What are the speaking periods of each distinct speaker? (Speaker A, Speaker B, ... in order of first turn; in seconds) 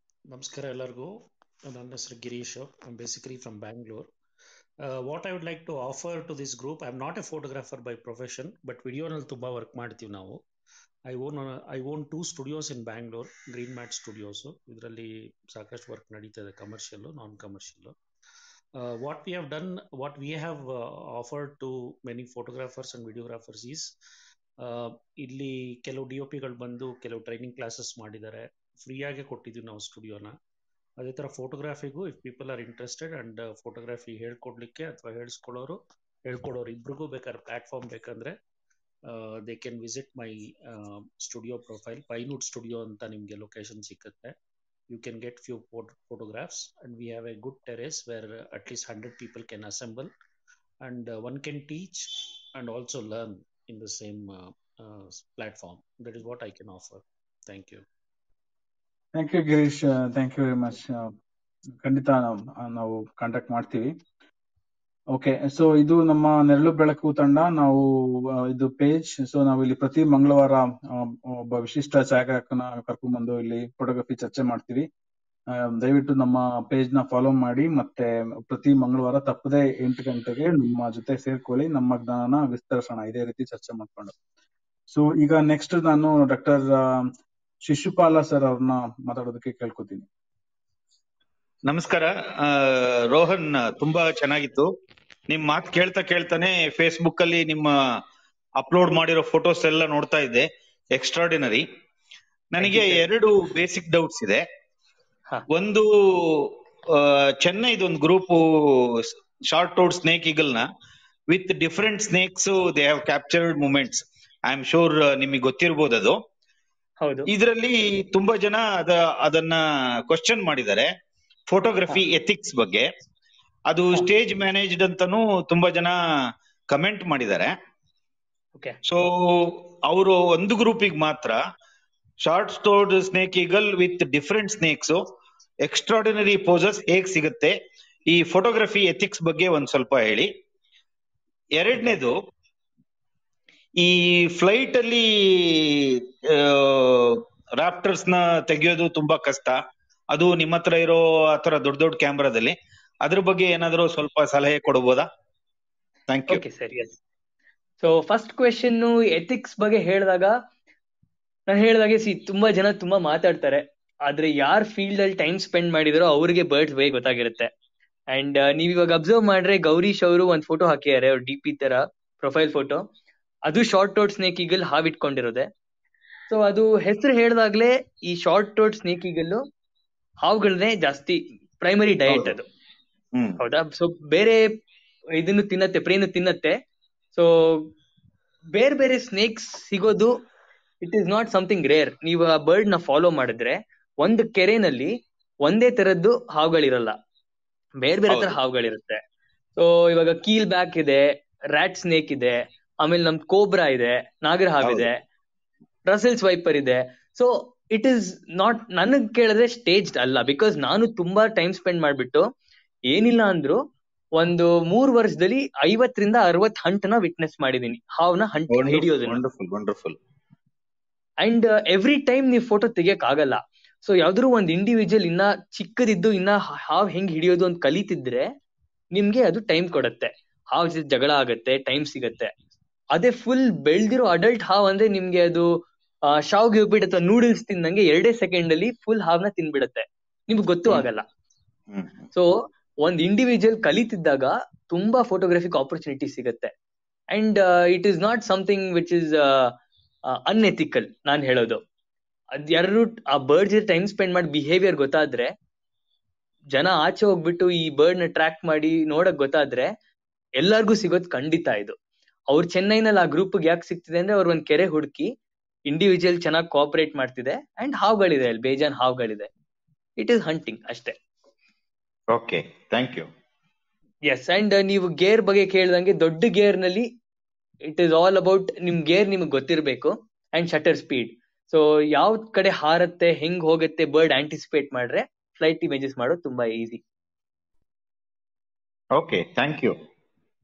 Speaker A: 0.3-4.1, 4.8-10.4, 11.1-18.0, 18.8-23.9, 24.6-30.4, 31.0-38.4, 39.1-44.4, 44.9-50.1, 50.8-57.9
Speaker B: 59.1-61.1, 61.8-63.9, 65.1-67.9, 68.4-74.9, 75.5-84.1, 84.9-87.1, 87.6-90.1
Speaker C: 91.7-94.7, 95.3-97.7, 98.6-101.7, 102.5-104.5, 105.5-110.7, 111.3-116.2, 117.3-120.9, 121.5-122.9, 123.7-126.0, 126.7-127.5, 128.9-131.4, 132.2-135.0, 135.7-137.6, 138.1-140.3, 141.6-142.2, 143.8-149.6, 150.1-155.1, 156.1-156.4, 182.1-182.4, 183.1-183.4, 198.1-198.3, 204.6-204.9, 218.5-220.0, 241.7-242.0, 272.1-273.1, 288.9-289.8
Speaker D: 102.6-103.0, 117.0-117.3, 156.3-156.9, 157.8-160.3, 161.5-167.5, 168.1-172.8, 173.5-175.5, 176.3-179.4, 180.2-182.4, 183.4-184.5, 185.2-186.6, 187.1-187.7, 188.5-190.1, 190.8-194.9, 195.4-196.9, 197.8-199.0, 199.6-204.9, 205.9-212.2, 212.9-213.6, 214.2-219.2, 221.2-228.3, 228.9-232.3, 232.9-235.5, 236.1-241.1, 242.1-246.5, 247.1-249.5, 250.3-251.6, 252.4-255.3, 256.5-259.7, 260.4-261.8, 262.3-265.1, 265.7-269.3, 270.0-270.9, 274.1-276.9, 277.7-286.8